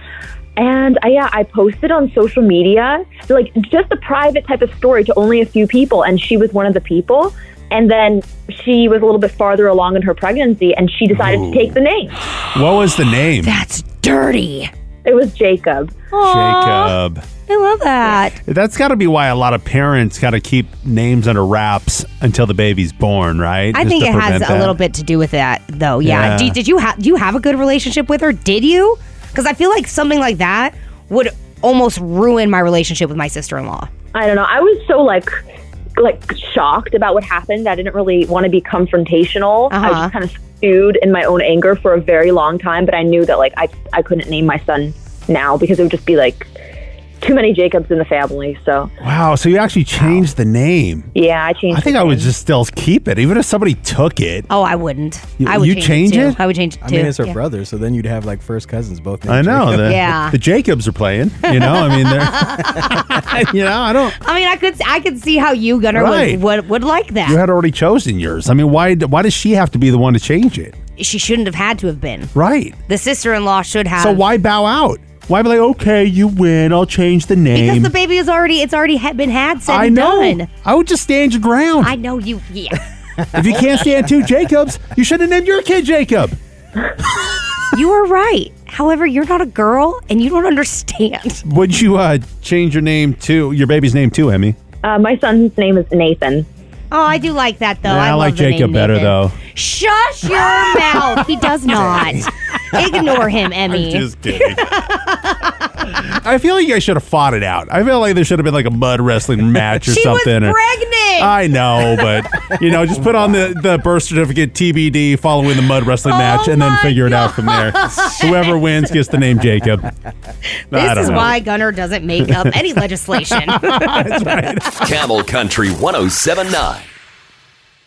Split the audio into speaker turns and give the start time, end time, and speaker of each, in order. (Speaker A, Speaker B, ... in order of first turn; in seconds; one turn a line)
Speaker A: 0.6-12.2
Speaker B: 11.1-11.8
Speaker B: 12.4-13.5
Speaker C: 13.4-14.7
Speaker A: 15.0-16.0
Speaker C: 16.1-18.4
Speaker B: 16.2-17.3
Speaker B: 18.4-24.8
Speaker C: 23.7-33.9
Speaker B: 26.0-26.6
Speaker A: 34.1-35.4
Speaker A: 36.0-46.5
Speaker C: 39.7-40.1
Speaker A: 47.2-48.9
Speaker B: 49.0-51.1
Speaker C: 50.0-50.2
Speaker A: 51.1-52.3
Speaker B: 51.7-54.5
Speaker C: 54.5-57.4
Speaker B: 55.4-56.4
Speaker D: 56.8-59.9
Speaker B: 59.3-64.2
Speaker C: 59.8-60.4
Speaker C: 61.4-63.3
Speaker C: 64.2-67.4
Speaker B: 65.9-66.4
Speaker B: 67.2-70.8
Speaker C: 71.0-72.3
Speaker B: 72.3-72.8
Speaker C: 72.9-74.2
Speaker B: 74.0-77.9
Speaker C: 77.5-80.5
Speaker B: 79.7-82.0
Speaker C: 81.8-82.8
Speaker B: 83.3-86.4
Speaker C: 87.7-91.4
Speaker B: 91.4-94.5
Speaker A: 94.8-96.5
Speaker C: 96.9-105.5
Speaker B: 97.8-99.3
Speaker B: 100.4-104.9
Speaker B: 105.8-110.6
Speaker C: 109.8-111.3
Speaker B: 111.2-119.9
Speaker C: 116.0-118.5
Speaker B: 120.7-121.4
Speaker C: 120.7-124.3
Speaker B: 122.2-124.9
Speaker E: 124.8-126.9